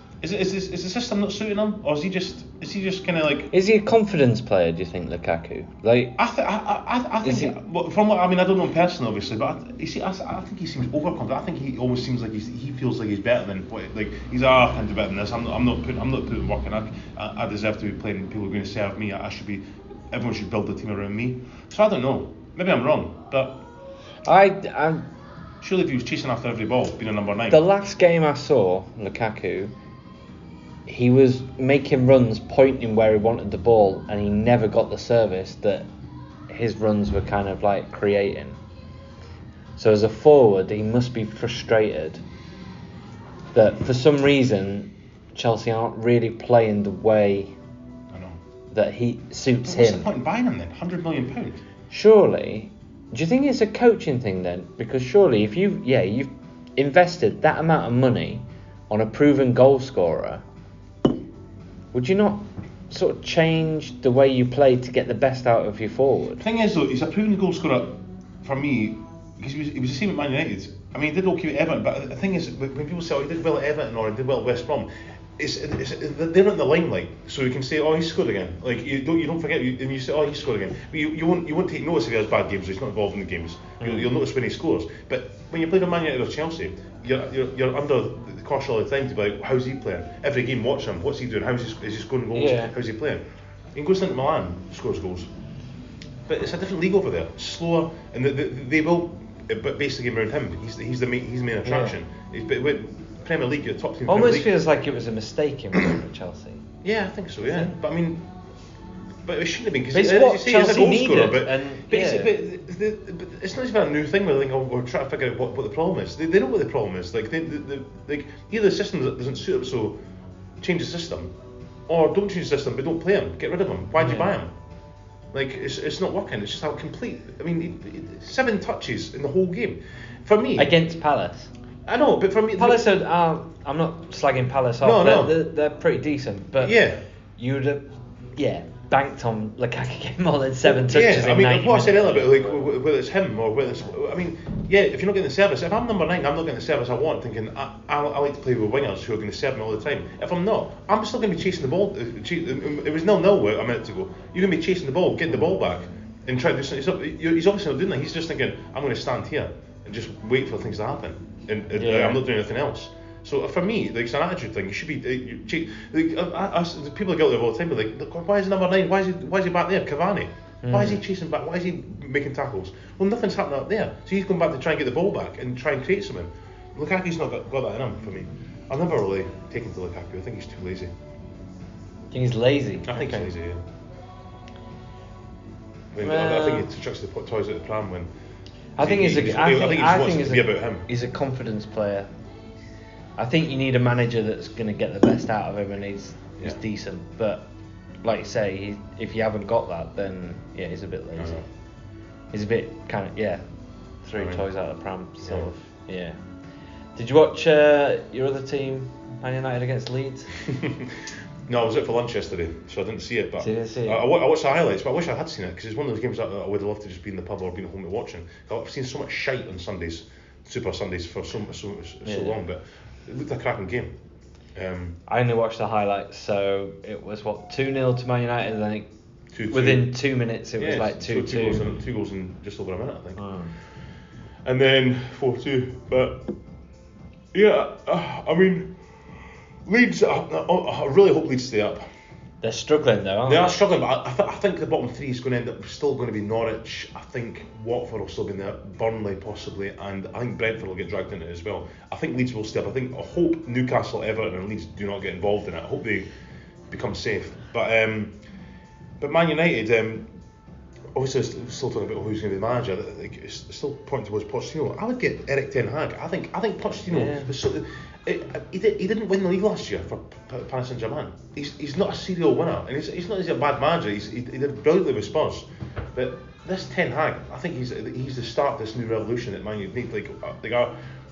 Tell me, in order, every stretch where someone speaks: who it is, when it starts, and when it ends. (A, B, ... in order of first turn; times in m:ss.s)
0:00.2-0:03.5 A
0:03.5-0:06.2 B
0:06.2-0:23.6 A
0:07.2-0:07.6 B
0:24.2-0:25.1 B
0:25.6-0:27.6 A
0:27.5-0:29.7 B
0:30.9-0:35.9 B
0:36.5-0:38.6 B
0:39.8-0:42.2 B
0:43.5-0:47.6 B
0:48.1-0:48.4 A
0:48.7-0:50.1 B
0:49.7-0:51.6 A
0:51.9-1:00.4 B
1:01.9-1:06.4 B
1:06.4-1:33.2 A
1:23.8-1:24.1 B
1:32.3-1:32.7 B
1:33.8-1:35.3 A
1:36.3-1:44.5 A
1:41.6-1:42.0 B
1:44.1-1:46.6 B
1:46.8-1:48.3 A
1:47.4-1:47.7 B
1:49.2-2:00.0 A
1:49.9-1:52.4 B
2:00.6-2:01.3 A
2:01.9-2:04.5 A
2:04.0-2:04.3 B
2:05.3-2:10.7 A
2:10.6-2:11.5 B
2:11.9-2:12.8 A
2:12.6-2:16.8 B
2:14.8-2:15.4 A
2:16.6-2:17.0 A
2:17.4-2:22.7 B
2:20.7-3:00.9 A
2:41.8-2:42.2 B
2:50.6-2:51.0 B
3:02.1-3:03.3 B
3:02.8-3:03.6 A
3:05.9-3:08.1 A
3:06.0-3:06.7 B
3:08.8-3:12.1 B
3:08.8-3:10.9 A
3:13.2-3:17.5 B
3:18.0-3:21.4 B
3:21.2-3:21.5 A
3:22.3-3:23.4 B
3:24.0-3:26.2 B
3:24.2-3:24.4 A
3:27.0-3:30.4 B
3:30.4-3:44.0 A
3:33.4-3:34.0 B
3:42.0-3:42.4 B
3:44.6-3:45.0 A
3:45.1-3:48.9 B
3:49.3-3:50.0 A
3:49.5-3:51.6 B
3:50.6-3:53.2 A
3:53.2-3:53.5 B
3:54.4-3:56.3 A
3:57.3-3:58.8 A
3:59.6-4:01.9 A
4:02.4-4:03.5 B
4:03.3-4:16.1 A
4:16.7-4:18.2 A
4:19.0-4:20.1 A
4:20.9-4:40.8 A
4:26.9-4:27.3 B